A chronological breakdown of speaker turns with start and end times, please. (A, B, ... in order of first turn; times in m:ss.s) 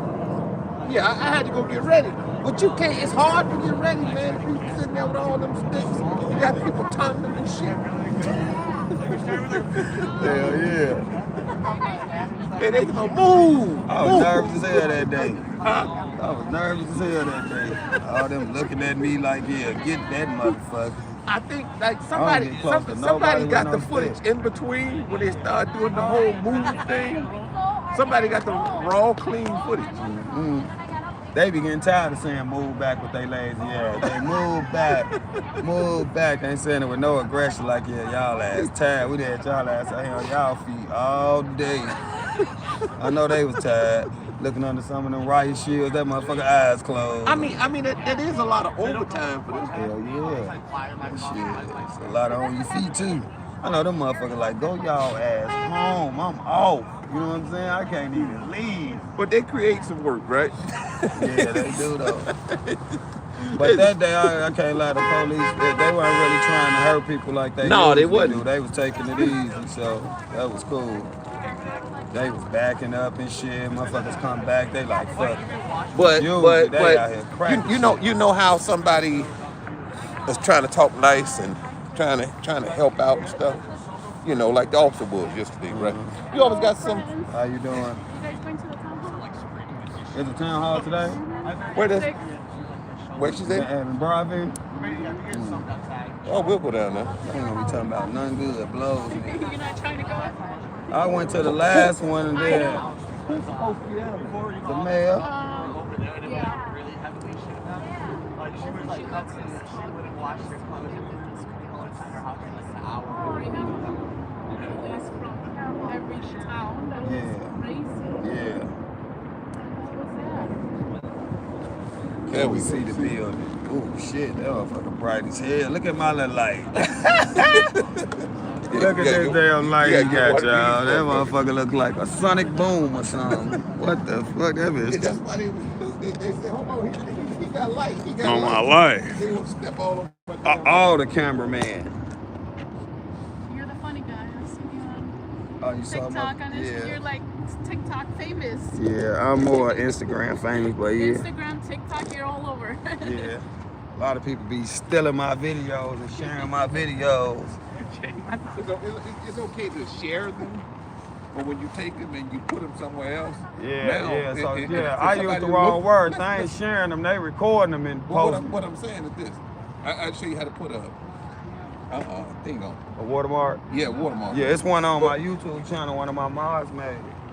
0:00.8-0:08.3 A
0:08.9-0:10.2 A
0:10.1-0:11.1 B
0:12.6-0:14.7 A
0:13.9-0:15.4 B
0:15.6-0:16.0 A
0:16.2-0:21.2 B
0:21.3-0:27.3 A
0:22.1-0:24.2 B
0:27.9-0:29.9 A
0:30.0-0:30.7 B
0:31.3-0:35.1 B
0:35.6-0:42.0 B
0:43.0-0:47.6 B
0:47.2-0:49.9 A
0:49.7-0:59.1 B
0:59.2-1:01.7 A
1:01.2-1:02.3 B
1:02.3-1:03.9 A
1:03.6-1:11.1 B
1:07.6-1:08.4 A
1:12.1-1:15.4 B
1:15.9-1:19.3 A
1:16.0-1:18.1 B
1:20.3-1:23.6 A
1:24.2-1:27.1 A
1:25.7-1:26.2 B
1:26.3-1:27.3 C
1:27.3-1:28.0 B
1:28.0-1:29.4 C
1:30.1-1:31.2 B
1:31.0-1:32.2 C
1:31.7-1:32.2 A
1:33.2-1:33.7 A
1:33.4-1:34.6 B
1:34.8-1:35.2 A
1:35.3-1:35.7 B
1:36.2-1:37.2 A
1:37.2-1:39.5 B
1:39.1-1:40.4 C
1:40.9-1:42.9 B
1:41.4-1:41.9 A
1:42.4-1:42.9 C
1:43.3-1:44.7 A
1:44.6-1:45.3 B
1:45.2-1:46.6 C
1:48.4-1:52.1 C
1:53.1-1:58.2 C
1:57.0-1:57.6 B
1:58.2-1:58.7 B
1:59.6-2:00.6 C
2:02.3-2:03.2 A
2:02.3-2:07.7 B
2:07.4-2:07.8 A
2:08.7-2:11.3 A
2:08.7-2:15.2 B
2:14.9-2:21.6 A
2:18.2-2:19.2 B
2:20.4-2:21.9 B
2:23.5-2:25.2 C
2:25.6-2:27.0 B
2:25.8-2:28.8 C
2:28.7-2:31.3 B
2:29.4-2:30.0 C
2:30.8-2:33.3 C
2:33.0-2:37.6 B
2:37.8-2:40.7 A
2:41.3-2:46.5 A
2:43.6-2:48.6 B
2:48.1-2:51.0 A
2:51.9-2:52.8 A
2:53.0-2:53.6 B
2:53.7-2:55.2 A
2:54.3-2:57.2 B